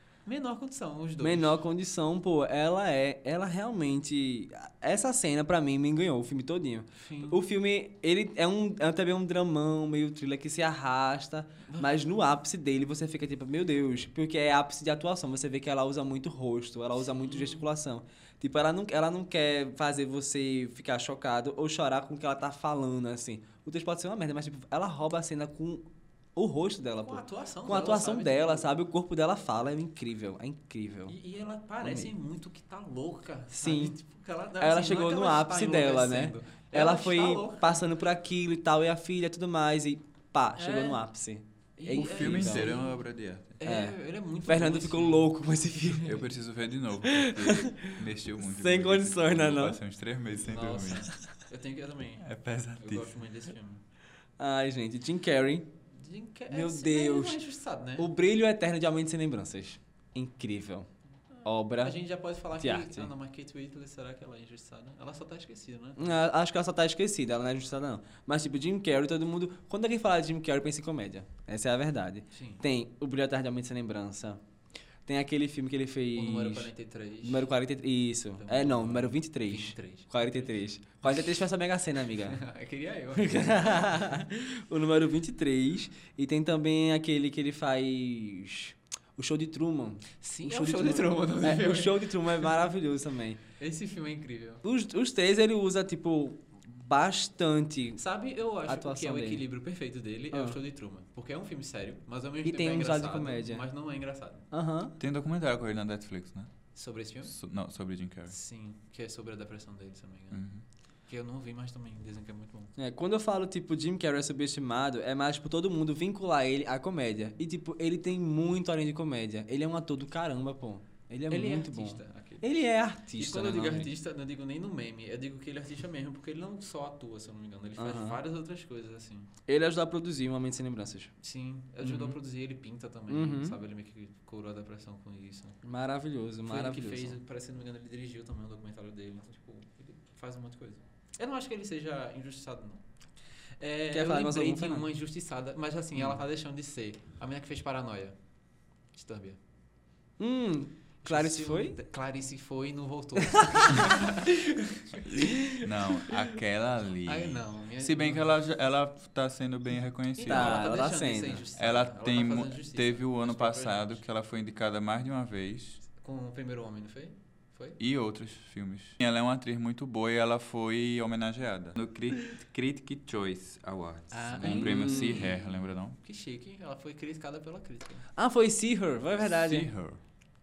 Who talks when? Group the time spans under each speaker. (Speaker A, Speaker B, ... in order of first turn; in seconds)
Speaker A: 0.2-1.6, 7.0-7.4, 11.7-12.0, 17.0-17.7, 27.0-28.7, 31.1-37.9, 40.6-41.0, 41.8-43.0, 43.6-46.2, 50.4-53.8, 55.9-58.1, 61.3-66.2, 72.3-72.6, 76.1-77.5, 78.3-80.5, 82.2-84.2, 90.2-92.7, 93.6-94.6, 98.0-104.5, 106.7-107.3, 108.3-110.4, 111.1-112.7, 121.3-129.3, 131.2-135.6, 136.5-142.8, 143.6-148.2, 148.9-149.4, 151.0-155.4, 157.1-158.3, 160.2-164.0, 165.9-167.8, 174.1-178.1
Speaker B: 1.2-31.1, 31.8-32.1, 33.5-34.0, 34.6-42.8, 43.6-46.2, 47.0-49.8, 54.4-55.7, 56.5-57.4, 58.0-60.9, 61.4-62.0, 62.6-63.1, 66.0-74.4, 75.1-76.7, 77.2-82.4, 83.2-93.4, 94.6-98.0, 98.7-99.4, 100.3-100.6, 102.4-103.7, 104.5-105.0, 112.8-123.9, 127.8-128.2, 129.5-131.1, 131.8-132.2, 133.1-133.6, 135.6-137.2, 143.9-144.9, 150.2-151.8, 153.4-153.9, 155.4-155.7, 160.3-161.4, 174.4-175.3, 178.2-179.7
Speaker C: 41.9-43.6, 46.0-51.1, 52.2-53.2, 105.0-106.5, 107.3-108.3, 110.3-110.6, 155.5-160.8, 161.6-165.8, 167.8-176.0, 179.2-180.0